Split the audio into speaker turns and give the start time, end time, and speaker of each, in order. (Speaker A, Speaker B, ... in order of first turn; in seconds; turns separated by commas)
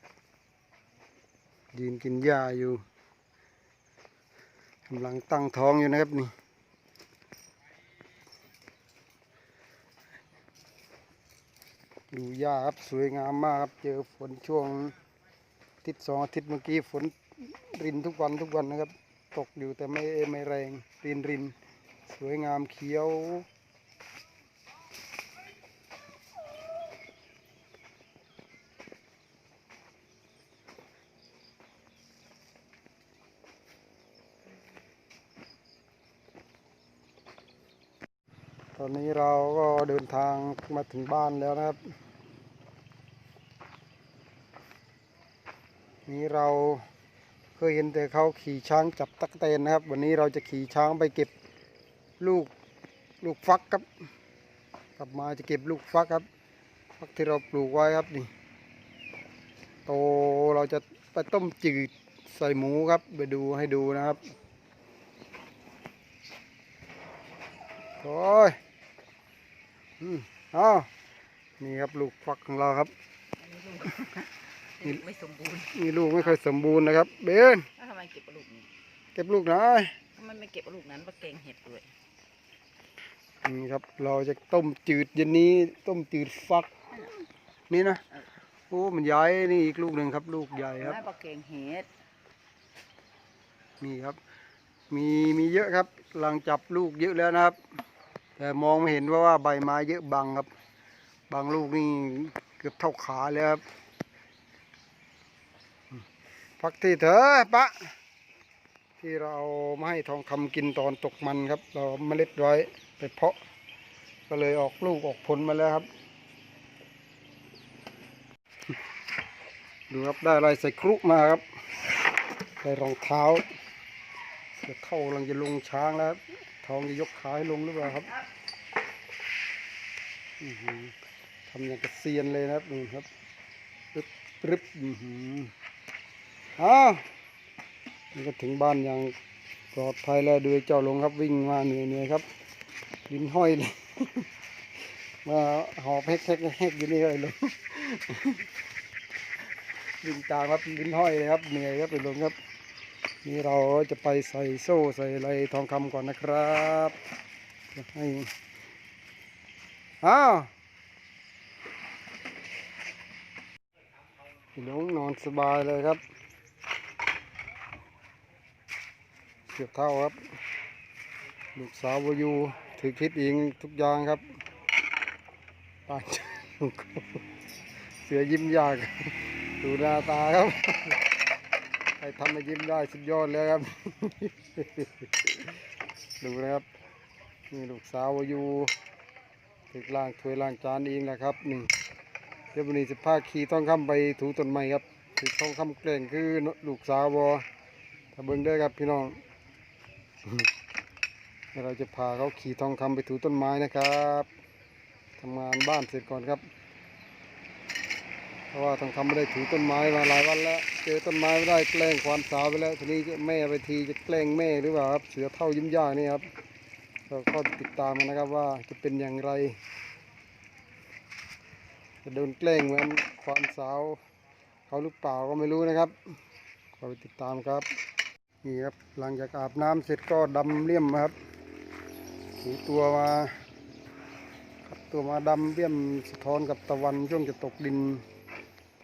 Speaker A: 1.7-2.8, Speaker A: 4.9-6.3, Speaker A: 12.1-14.9, Speaker A: 15.8-21.6, Speaker A: 22.1-23.4, Speaker A: 38.8-41.8, Speaker A: 46.0-46.8, Speaker A: 47.6-51.3, Speaker A: 52.2-52.5, Speaker A: 53.2-53.9, Speaker A: 55.0-56.2, Speaker A: 57.0-58.3, Speaker A: 59.9-64.3, Speaker A: 68.0-68.6, Speaker A: 70.0-70.9, Speaker A: 71.6-72.9, Speaker B: 73.4-75.7, Speaker A: 75.7-77.7, Speaker B: 77.8-78.7, Speaker A: 79.1-79.9, Speaker B: 80.2-81.9, Speaker A: 83.4-86.7, Speaker A: 87.7-88.0, Speaker A: 88.7-91.0, Speaker B: 90.8-91.9, Speaker A: 93.8-94.2, Speaker A: 94.9-97.6, Speaker A: 98.4-100.5, Speaker A: 101.3-103.6, Speaker A: 106.6-107.9, Speaker A: 109.0-113.4, Speaker A: 114.3-115.9, Speaker A: 119.9-121.4, Speaker A: 122.6-123.5, Speaker A: 124.5-128.1, Speaker A: 130.4-130.9, Speaker A: 131.5-133.1, Speaker A: 133.9-135.5, Speaker A: 136.6-137.1, Speaker A: 138.1-139.1, Speaker A: 139.7-142.2, Speaker A: 143.1-144.3, Speaker A: 145.2-148.4, Speaker A: 150.0-152.3, Speaker A: 153.2-157.0, Speaker A: 157.7-158.3, Speaker A: 160.0-160.5, Speaker A: 164.6-166.0, Speaker A: 169.5-170.2, Speaker A: 171.5-174.2, Speaker A: 175.9-177.2, Speaker A: 178.0-181.0, Speaker A: 182.0-185.6, Speaker A: 186.2-186.7, Speaker A: 187.5-188.7, Speaker A: 189.7-191.7, Speaker A: 192.5-197.4, Speaker A: 198.1-199.2, Speaker A: 201.5-204.3, Speaker A: 205.2-206.4, Speaker A: 208.5-216.3, Speaker A: 217.1-219.6, Speaker A: 222.0-224.0, Speaker A: 224.7-225.9, Speaker A: 226.8-227.7, Speaker A: 228.4-231.2, Speaker A: 232.4-233.3, Speaker A: 234.7-238.0